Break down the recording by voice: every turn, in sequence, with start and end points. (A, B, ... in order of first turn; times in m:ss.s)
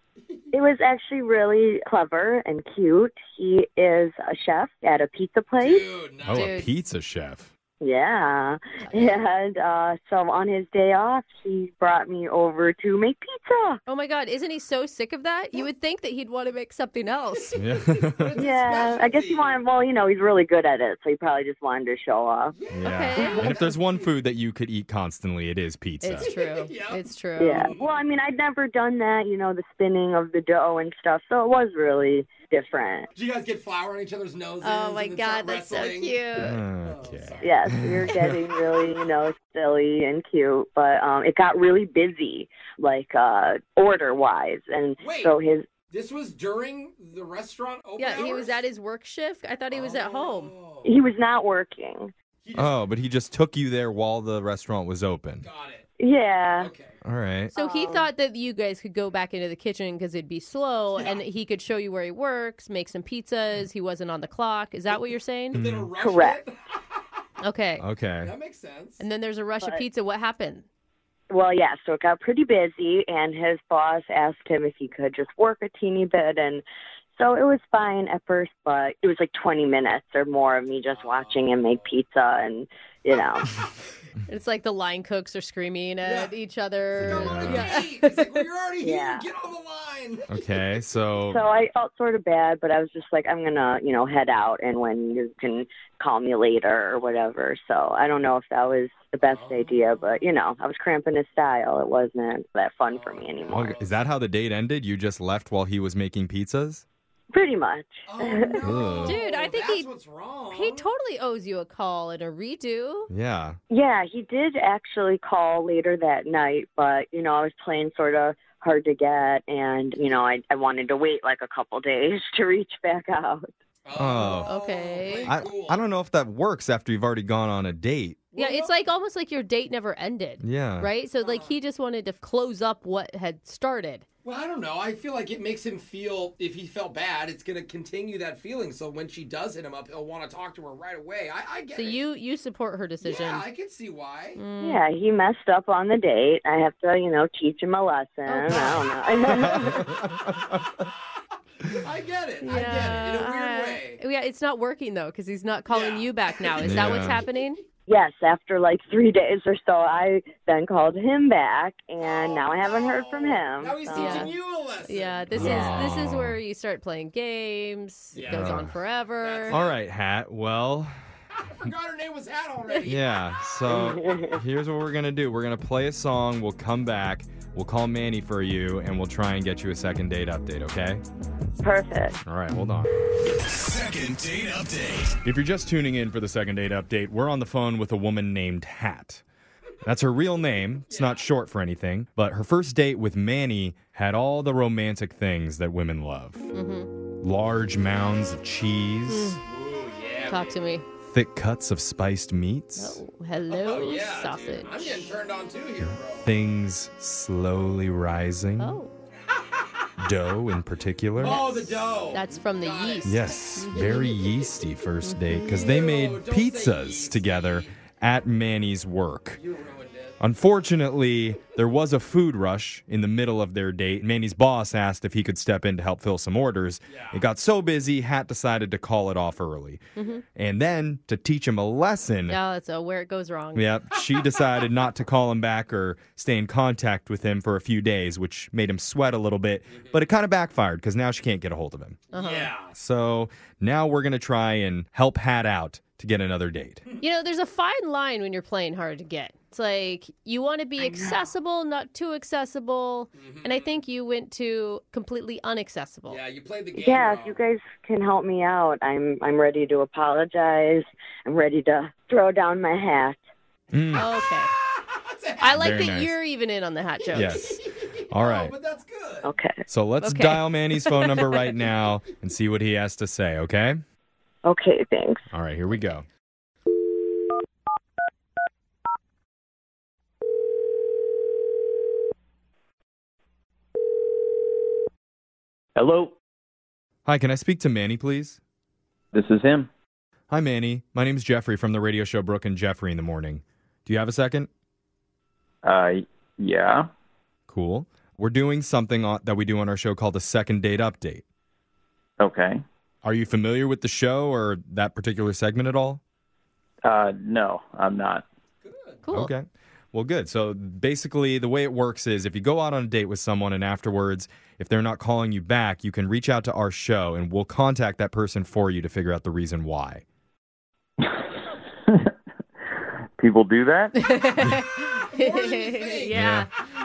0:00.2-0:00.6 A
0:00.5-0:05.9 B
0:05.6-0:06.6 A
0:06.2-0:07.5 C
0:06.3-0:06.7 D
0:07.8-0:13.8 B
0:08.9-0:09.1 D
0:13.9-0:17.5 D
0:17.4-0:19.6 A
0:17.6-0:18.4 C
0:18.4-0:22.6 B
0:22.5-0:24.1 A
0:22.7-0:26.3 C
0:22.8-0:23.5 D
0:23.2-0:23.6 B
0:26.0-0:27.7 D
0:26.2-0:28.0 A
0:27.4-0:33.1 B
0:33.1-0:37.7 A
0:34.6-0:36.6 D
0:36.4-0:38.2 C
0:37.4-0:45.7 B
0:45.0-0:45.4 A
0:45.9-0:48.6 A
0:48.0-0:50.5 D
0:49.7-0:51.0 A
0:50.8-0:52.1 B
0:52.4-0:52.8 A
0:52.6-0:55.4 C
0:55.4-0:55.8 A
0:56.0-0:56.7 B
0:56.6-0:57.0 A
0:57.0-0:57.5 C
0:57.5-1:05.6 D
0:57.5-0:58.1 B
1:05.5-1:06.6 A
1:05.5-1:05.9 C
1:06.0-1:06.4 B
1:07.4-1:07.8 D
1:07.8-1:08.3 C
1:08.2-1:09.0 A
1:09.0-1:10.6 D
1:11.3-1:16.6 B
1:17.2-1:23.5 B
1:20.9-1:21.9 A
1:24.2-1:28.3 D
1:26.0-1:26.3 A
1:26.9-1:30.4 A
1:27.0-1:27.7 C
1:28.8-1:29.3 B
1:30.3-1:31.4 C
1:31.3-1:43.7 B
1:39.2-1:40.2 A
1:42.8-1:44.1 A
1:43.5-1:46.8 C
1:47.3-1:48.9 B
1:48.0-1:50.9 A
1:48.6-1:49.2 C
1:49.0-1:49.9 D
1:50.5-1:53.1 D
1:53.1-1:53.6 C
1:53.7-2:03.5 B
2:03.8-2:05.8 A
2:04.0-2:04.5 C
2:04.4-2:05.3 D
2:05.2-2:08.2 C
2:08.3-2:08.7 A
2:08.4-2:14.0 D
2:10.4-2:10.9 C
2:11.2-2:11.6 A
2:14.2-2:22.0 A
2:21.7-2:23.4 D
2:23.0-2:24.4 A
2:24.4-2:24.8 D
2:24.6-2:29.9 B
2:28.2-2:28.8 D
2:28.5-2:29.3 A
2:29.5-2:30.1 C
2:31.7-2:34.0 A
2:32.4-2:37.6 D
2:35.7-2:37.2 A
2:36.6-2:37.2 C
2:37.9-2:44.3 B
2:42.0-2:46.0 A
2:44.0-2:44.3 D
2:44.8-2:49.6 D
2:45.3-2:46.4 C
2:48.1-2:49.8 A
2:48.3-2:48.7 C
2:49.5-2:50.9 C
2:51.5-2:53.0 A
2:52.8-3:01.0 C
2:53.7-2:54.4 B
3:01.6-3:02.2 B
3:02.2-3:02.9 C
3:05.0-3:09.2 C
3:09.8-3:16.5 C
3:10.9-3:11.3 A
3:16.5-3:16.9 D
3:17.2-3:19.4 C
3:19.1-3:19.4 D
3:19.4-3:20.6 A
3:20.3-3:20.8 D
3:21.1-3:23.0 C
3:22.8-3:25.1 D
3:23.5-3:26.3 A
3:25.8-3:28.8 C
3:28.6-3:28.9 D
3:30.0-3:31.4 C
3:31.2-3:34.1 A
3:31.2-3:34.1 D
3:33.0-3:39.4 C
3:35.0-3:35.6 D
3:35.5-3:37.8 A
3:39.4-3:40.2 A
3:40.2-3:49.8 C
3:46.8-3:47.2 A
3:50.0-3:50.2 D
3:50.3-3:52.4 C
3:52.3-3:53.7 D
3:53.5-4:02.0 C
3:59.7-4:00.0 A
4:02.1-4:02.5 D
4:02.1-4:02.8 A
4:02.7-4:06.8 C
4:07.0-4:16.2 D
4:10.8-4:11.2 B
4:13.1-4:13.8 A
4:16.1-4:17.4 A
4:16.8-4:23.2 B
4:23.7-4:24.1 C
4:23.9-4:24.5 D
4:24.6-4:25.6 A
4:25.4-4:27.6 D
4:25.6-4:26.1 C
4:27.1-4:28.5 C
4:28.1-4:29.3 A
4:29.2-4:29.6 B
4:29.7-4:33.8 C
4:30.0-4:31.3 D
4:34.4-4:35.3 B
4:35.3-4:36.0 C
4:45.8-4:46.2 E
4:47.0-4:48.4 C
4:49.1-4:49.7 E
4:50.3-4:54.5 C
4:55.6-4:56.9 E
4:57.5-5:01.2 C
5:02.2-5:02.6 E
5:03.0-5:06.0 C
5:06.8-5:08.2 E
5:08.6-5:09.0 A
5:09.0-5:09.3 D
5:09.1-5:20.0 C
5:23.2-5:23.9 E
5:23.9-5:26.5 D
5:25.1-5:26.2 A
5:26.1-5:26.5 C